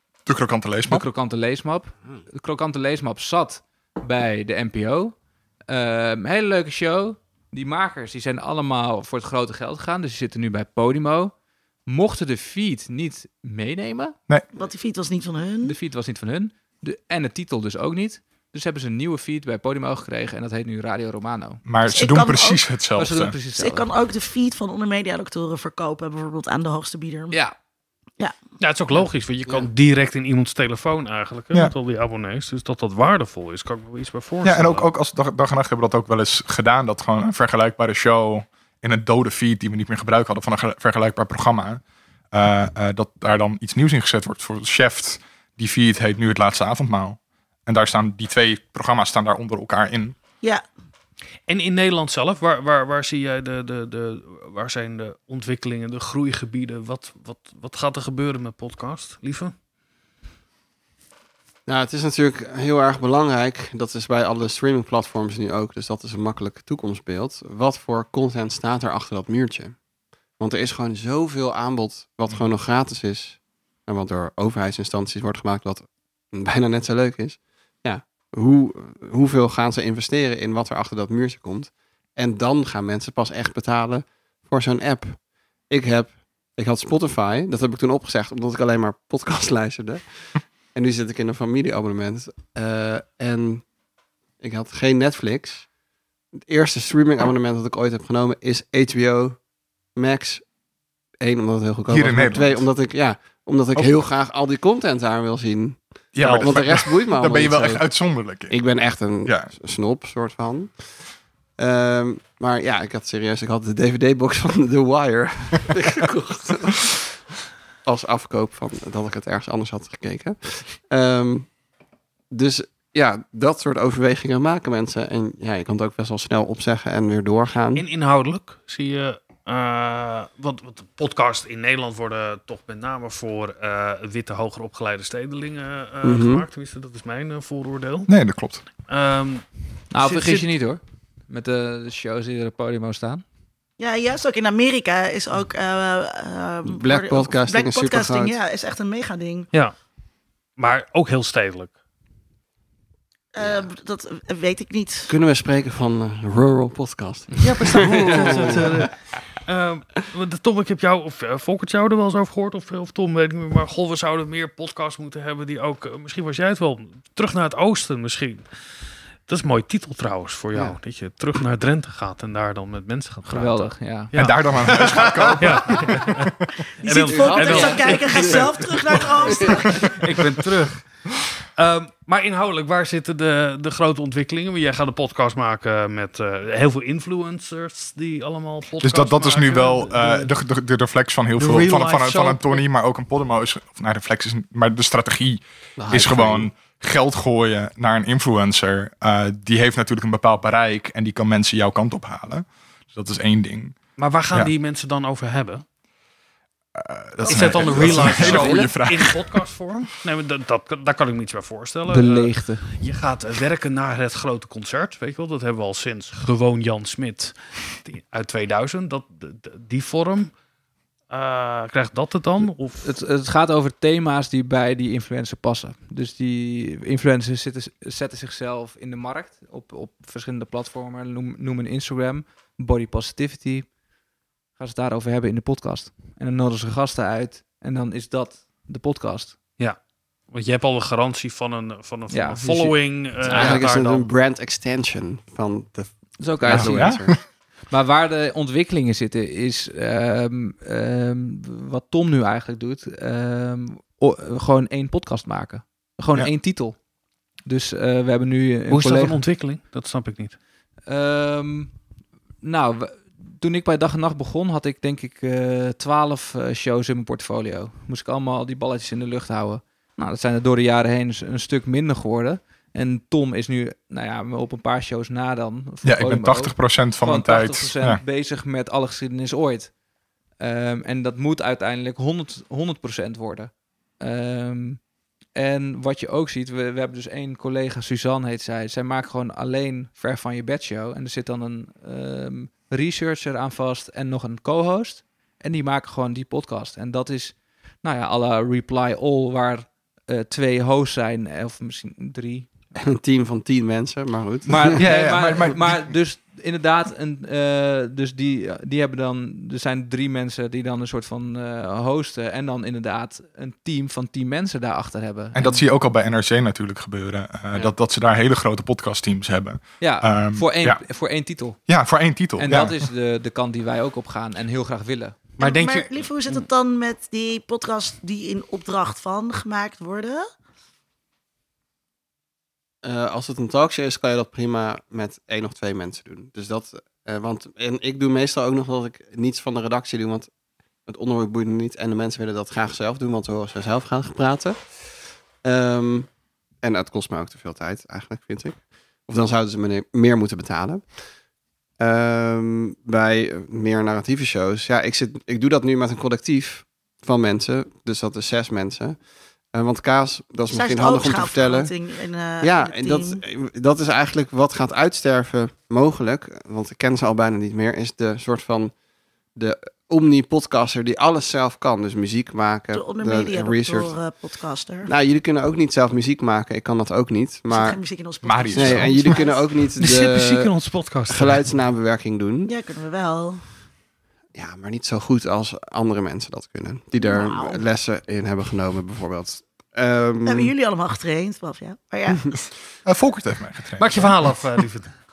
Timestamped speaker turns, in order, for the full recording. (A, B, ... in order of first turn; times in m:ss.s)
0:00.2-0:01.0 A
0:00.8-0:05.1 B
0:05.7-0:11.3 B
0:11.8-0:14.2 B
0:14.5-0:15.7 C
0:15.6-0:21.6 B
0:21.6-0:23.3 A
0:21.9-0:22.6 C
0:22.9-0:23.9 B
0:23.5-0:27.4 C
0:27.3-0:27.5 B
0:28.6-0:34.9 D
0:34.4-0:50.2 A
0:51.5-0:59.5 D
1:01.7-1:09.8 E
1:10.4-1:33.6 E
1:34.4-1:35.7 E
1:36.5-1:39.4 E
1:39.9-1:40.4 E
1:41.2-1:47.8 E
1:41.9-1:42.6 A
1:46.1-1:48.6 A
1:46.2-1:46.5 D
1:48.5-1:51.0 E
1:49.2-1:49.5 A
1:51.6-1:57.0 E
1:57.8-2:01.5 E
2:02.3-2:07.8 E
2:07.8-2:18.1 D
2:16.0-2:16.4 E
2:18.1-2:18.6 A
2:18.8-2:19.5 D
2:19.9-2:23.2 B
2:20.0-2:20.4 D
2:23.8-2:29.5 C
2:26.6-2:28.3 E
2:30.6-2:31.7 D
2:33.3-2:35.1 C
2:33.4-2:33.7 E
2:35.1-2:38.9 E
2:37.4-2:48.5 D
2:49.2-2:54.4 D
2:53.2-2:54.9 B
2:54.1-2:56.1 A
2:55.4-2:56.3 D
2:56.8-2:59.7 C
2:56.8-3:01.0 D
2:57.1-2:58.4 E
2:59.3-2:59.6 E
3:01.6-3:10.3 D
3:08.8-3:23.8 A
3:11.4-3:12.6 D
3:15.8-3:16.5 E
3:24.0-3:25.6 D
3:26.7-3:29.3 A
3:27.3-3:40.3 D
3:27.6-3:28.4 E
3:27.6-3:28.7 B
3:31.9-3:32.7 B
3:41.1-3:42.9 D
3:42.8-3:53.7 B
3:54.6-3:59.6 B
3:59.6-4:04.1 D
4:02.1-4:03.7 B
4:03.3-4:07.2 E
4:06.2-4:07.0 B
4:06.4-4:07.2 A
4:07.7-4:16.8 B
4:17.4-4:19.2 B
4:18.7-4:20.4 D
4:20.9-4:21.7 B
4:22.4-4:39.7 B
4:35.8-4:38.0 A
4:40.4-4:44.8 B
4:45.3-5:02.5 B
5:02.8-5:04.8 E
5:04.4-5:15.6 B
5:04.8-5:05.9 A
5:15.3-5:20.8 A
5:19.8-5:21.6 B
5:21.6-5:22.9 A
5:22.4-5:26.0 B
5:25.4-5:30.2 C
5:32.8-5:40.3 E
5:40.9-5:46.1 E
5:46.6-5:50.9 E
5:51.8-5:59.0 E
5:59.5-6:01.7 E
6:00.5-6:03.2 C
6:02.4-6:08.7 E
6:09.3-6:13.9 E
6:12.7-6:14.9 C
6:14.8-6:17.8 E
6:17.5-6:19.5 C
6:18.2-6:19.2 A
6:18.5-6:20.5 E
6:19.8-6:21.5 D
6:21.1-6:22.5 E
6:22.4-6:23.5 C
6:24.3-6:30.5 E
6:27.0-6:27.6 C
6:30.2-6:32.3 C
6:32.8-6:34.3 A
6:33.8-6:35.0 D